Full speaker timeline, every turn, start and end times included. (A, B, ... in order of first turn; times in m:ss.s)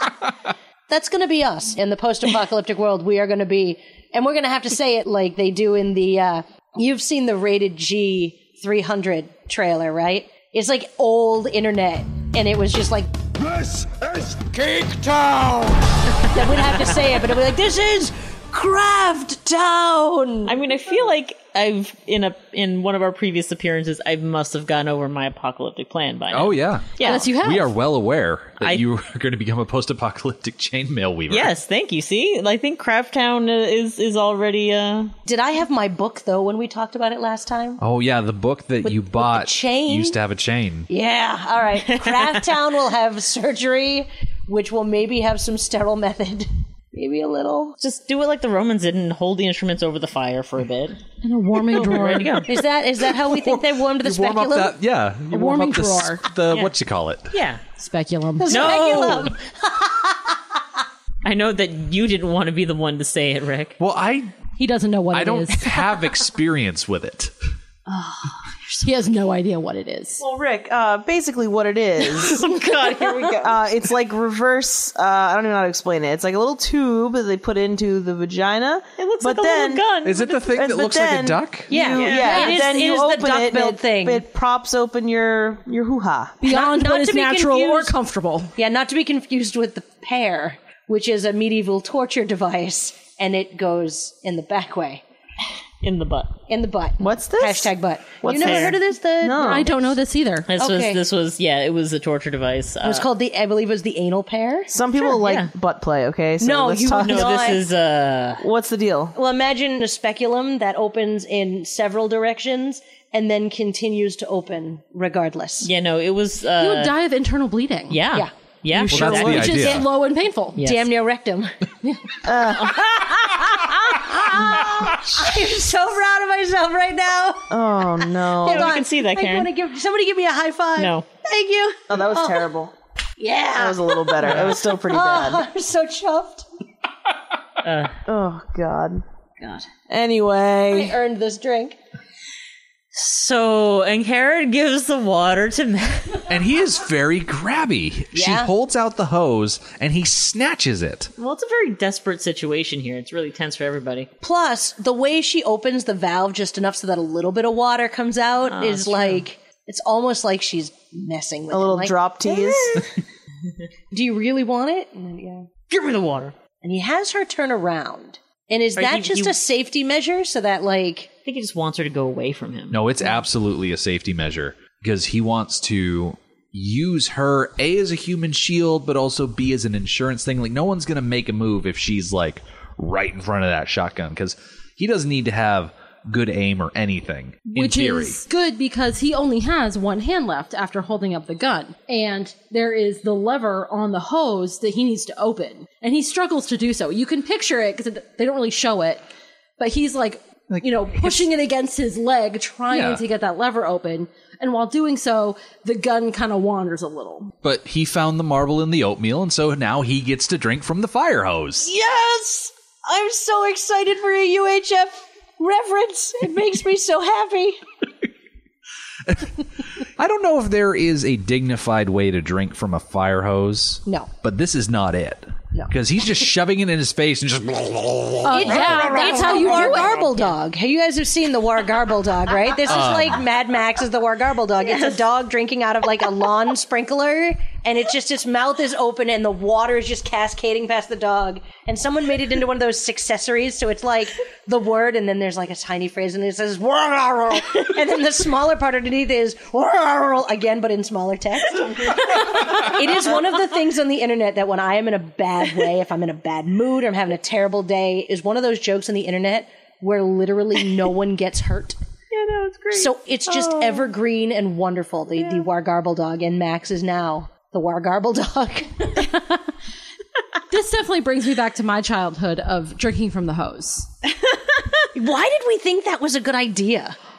0:00.9-0:13.1 A
0:14.4-0:20.6 A
0:20.5-0:27.3 B
0:26.3-0:31.5 C
0:27.0-0:27.7 D
0:31.3-0:35.1 B
0:35.3-0:37.8 A
0:37.8-0:40.9 C
0:38.8-0:40.2 A
0:40.9-0:47.8 A
0:41.8-0:42.4 B
0:47.8-0:51.0 B
0:51.2-0:52.4 D
0:51.7-0:52.5 B
0:52.4-0:54.8 A
0:53.2-0:57.4 C
0:55.3-0:56.2 D
0:57.3-0:57.6 B
0:57.8-0:58.9 D
0:58.4-1:00.6 A
0:58.5-0:59.4 B
1:01.2-1:03.8 B
1:03.8-1:04.4 C
1:04.6-1:05.8 D
1:05.1-1:07.3 C
1:07.9-1:08.8 B
1:08.8-1:10.2 D
1:10.2-1:19.9 E
1:12.2-1:13.3 B
1:12.4-1:13.4 D
1:19.0-1:20.4 B
1:20.0-1:21.7 C
1:20.5-1:26.4 E
1:21.7-1:24.3 A
1:22.0-1:22.5 B
1:26.4-1:28.5 D
1:26.4-1:28.0 A
1:28.6-1:35.0 A
1:35.8-1:36.3 B
1:36.5-1:39.7 A
1:37.0-1:39.7 E
1:38.3-1:38.8 B
1:39.3-1:40.5 D
1:40.5-1:43.1 B
1:40.6-1:41.0 A
1:42.8-1:44.7 A
1:44.7-1:47.6 E
1:45.1-1:45.5 B
1:46.4-1:47.6 A
1:47.0-1:48.4 B
1:48.4-1:49.2 E
1:49.2-1:55.7 A
1:55.6-1:57.0 B
1:56.6-1:58.0 D
1:57.9-1:59.8 B
1:58.7-2:00.6 D
1:58.9-1:59.9 C
2:00.6-2:00.8 B
2:00.6-2:01.6 A
2:02.2-2:02.8 E
2:02.6-2:12.5 A
2:07.5-2:08.7 E
2:08.4-2:09.5 B
2:10.8-2:11.1 B
2:11.9-2:12.7 E
2:13.2-2:16.5 A
2:13.6-2:15.5 E
2:14.2-2:14.6 B
2:17.6-2:18.0 B
2:18.1-2:19.0 E
2:19.4-2:19.7 B
2:19.9-2:21.0 E
2:20.7-2:21.8 A
2:22.9-2:26.3 B
2:26.3-2:31.1 C
2:28.1-2:28.5 A
2:31.2-2:34.1 B
2:34.2-2:42.9 A
2:38.5-2:39.2 B
2:41.5-2:43.0 E
2:43.9-2:45.5 A
2:45.7-2:46.4 B
2:46.6-2:51.1 A
2:48.8-2:49.4 B
2:51.2-2:52.8 B
2:52.7-3:08.2 C
3:07.5-3:19.0 D
3:19.6-3:27.3 D
3:20.5-3:21.2 C
3:22.7-3:23.0 C
3:27.4-3:31.7 C
3:31.6-3:37.6 A
3:39.1-3:48.9 C
3:43.9-3:44.1 A
3:48.2-3:50.0 D
3:48.3-4:21.8 A
3:49.2-3:50.4 B
3:52.7-3:53.2 C
3:54.6-3:55.0 B
4:22.2-4:22.9 E
4:22.7-4:29.1 A
4:29.0-4:29.4 D
4:30.5-4:33.9 D
4:35.0-4:37.0 A